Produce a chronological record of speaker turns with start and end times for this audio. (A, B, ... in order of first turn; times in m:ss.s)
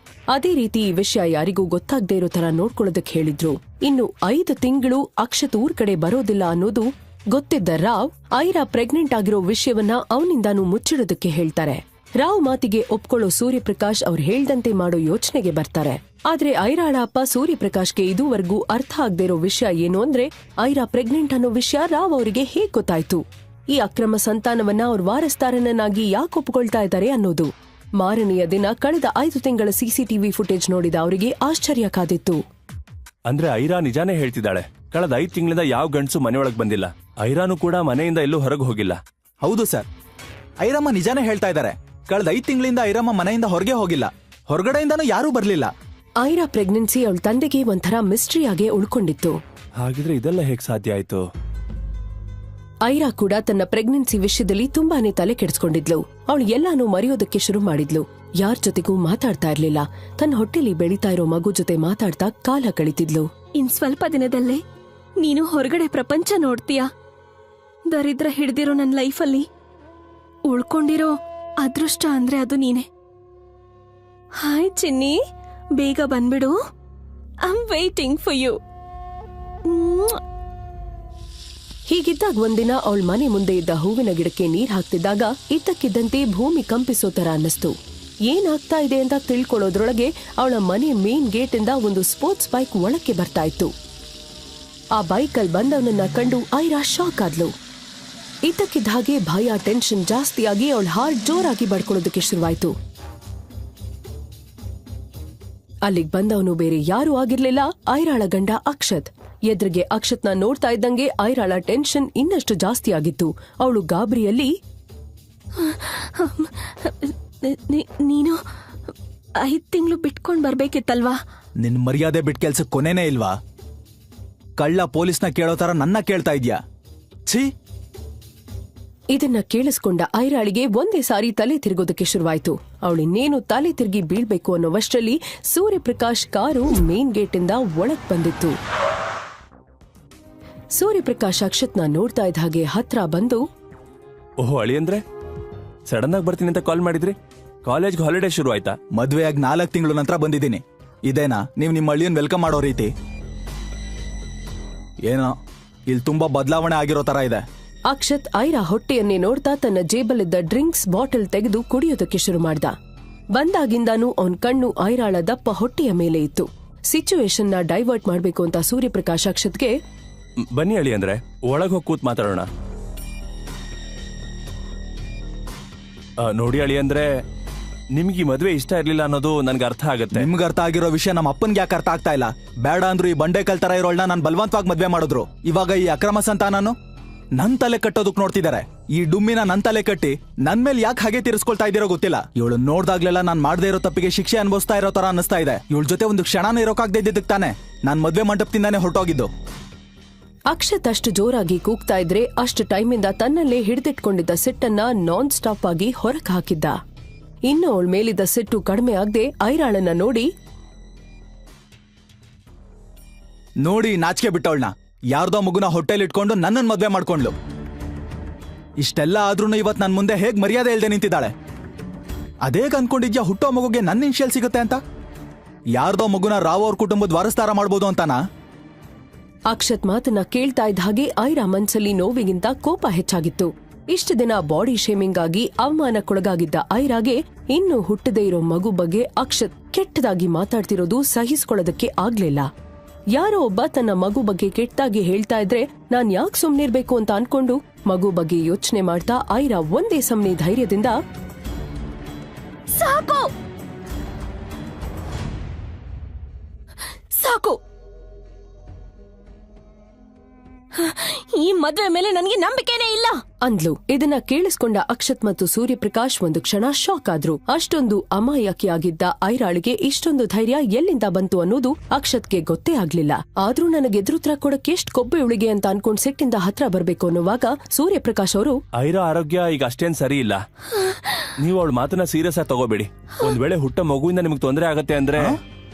0:00.3-0:32.4 A
0:33.3-0:39.0 B
0:39.4-0:39.8 C
0:40.6-0:45.7 C
0:46.2-0:49.4 A
0:49.8-0:51.2 B
0:52.8-1:03.3 A
1:03.5-1:04.6 D
1:05.2-1:06.9 D
1:07.8-1:09.5 D
1:10.5-1:12.9 D
1:14.4-1:15.2 D
1:15.7-1:16.6 D
1:17.4-1:18.6 D
1:19.6-1:20.2 D
1:21.9-1:27.7 A
1:28.3-1:33.7 A
1:35.0-1:37.5 A
1:38.4-1:42.7 A
1:45.8-1:54.5 A
1:55.5-1:58.4 D
1:59.4-2:01.2 D
2:01.6-2:03.3 C
2:04.6-2:06.6 C
2:09.1-2:18.6 A
2:20.8-2:23.4 A
2:24.4-2:25.0 B
2:25.9-2:27.1 B
2:27.6-2:28.8 B
2:28.9-2:32.9 C
2:35.0-2:35.3 C
2:35.9-2:37.4 C
2:37.9-2:42.7 A
2:43.3-2:49.8 A
2:50.5-2:52.5 B
2:56.2-2:57.1 B
2:57.9-3:00.3 B
3:00.1-3:06.7 C
3:07.4-3:19.3 C
3:20.5-3:26.8 A
3:27.5-3:30.3 A
3:33.6-3:37.3 C
3:38.8-3:41.3 C
3:42.4-3:44.8 C
3:45.7-3:48.2 C
3:49.5-4:02.5 A
4:03.1-4:11.0 A
4:12.7-4:13.3 D
4:17.2-4:17.6 D
4:20.8-4:23.2 D
4:23.4-4:38.6 A
4:38.8-4:40.4 B
4:41.4-4:45.4 B